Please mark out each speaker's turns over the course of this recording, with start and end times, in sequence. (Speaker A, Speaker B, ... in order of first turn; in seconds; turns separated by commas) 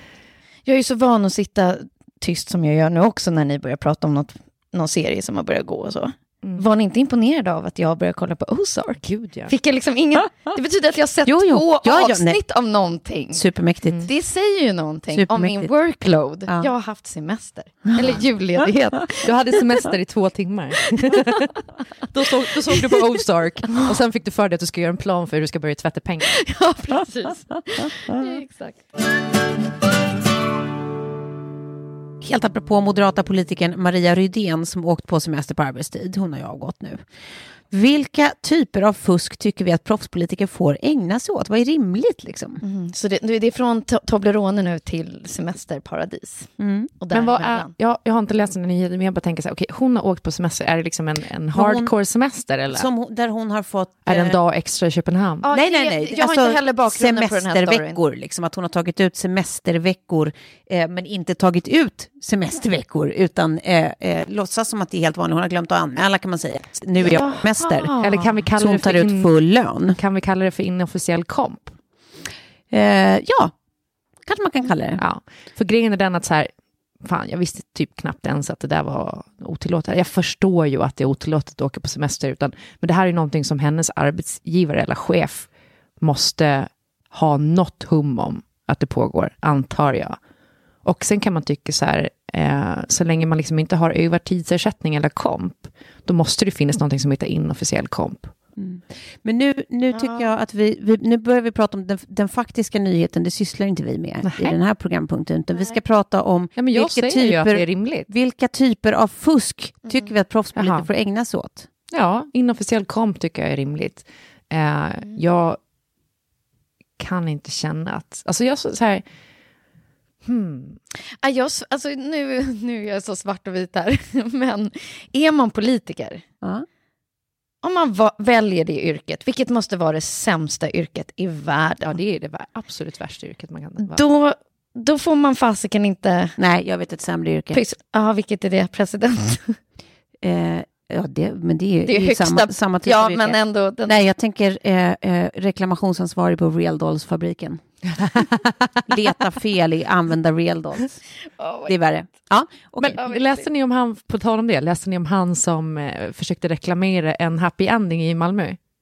Speaker A: 0.7-13.4, Speaker B: 9.0-9.5, Speaker C: 11.2-12.4, Speaker C: 13.3-14.1, Speaker A: 14.1-19.3, Speaker C: 15.1-15.7, Speaker C: 16.5-16.7, Speaker B: 19.2-21.5, Speaker B: 22.1-26.3, Speaker A: 22.8-23.1, Speaker A: 26.3-28.8, Speaker C: 32.2-37.1, Speaker C: 37.7-42.6, Speaker A: 42.6-47.7, Speaker C: 46.6-46.9, Speaker B: 47.1-52.9, Speaker C: 51.5-51.9, Speaker C: 52.7-54.4, Speaker B: 54.1-55.5, Speaker A: 55.4-58.0, Speaker C: 55.5-70.0, Speaker A: 67.0-68.4, Speaker B: 68.0-69.3, Speaker B: 69.9-71.8, Speaker C: 72.7-73.5, Speaker C: 74.2-75.0, Speaker B: 75.0-76.5, Speaker B: 77.0-85.5, Speaker B: 86.0-90.2, Speaker B: 90.8-98.3, Speaker C: 98.6-111.7, Speaker A: 99.9-100.3, Speaker B: 104.2-104.6, Speaker B: 106.6-108.1, Speaker A: 109.9-110.1, Speaker B: 110.5-110.9, Speaker B: 111.9-115.6, Speaker B: 117.0-119.0, Speaker B: 120.2-120.8, Speaker A: 121.2-126.2, Speaker A: 127.6-132.0, Speaker B: 131.9-134.0, Speaker A: 133.8-136.4, Speaker C: 136.4-137.6, Speaker A: 137.5-139.6, Speaker C: 140.2-147.6, Speaker A: 141.9-144.0, Speaker C: 148.9-151.0, Speaker A: 151.4-151.8, Speaker C: 151.7-153.0, Speaker B: 152.8-158.6, Speaker A: 153.0-153.5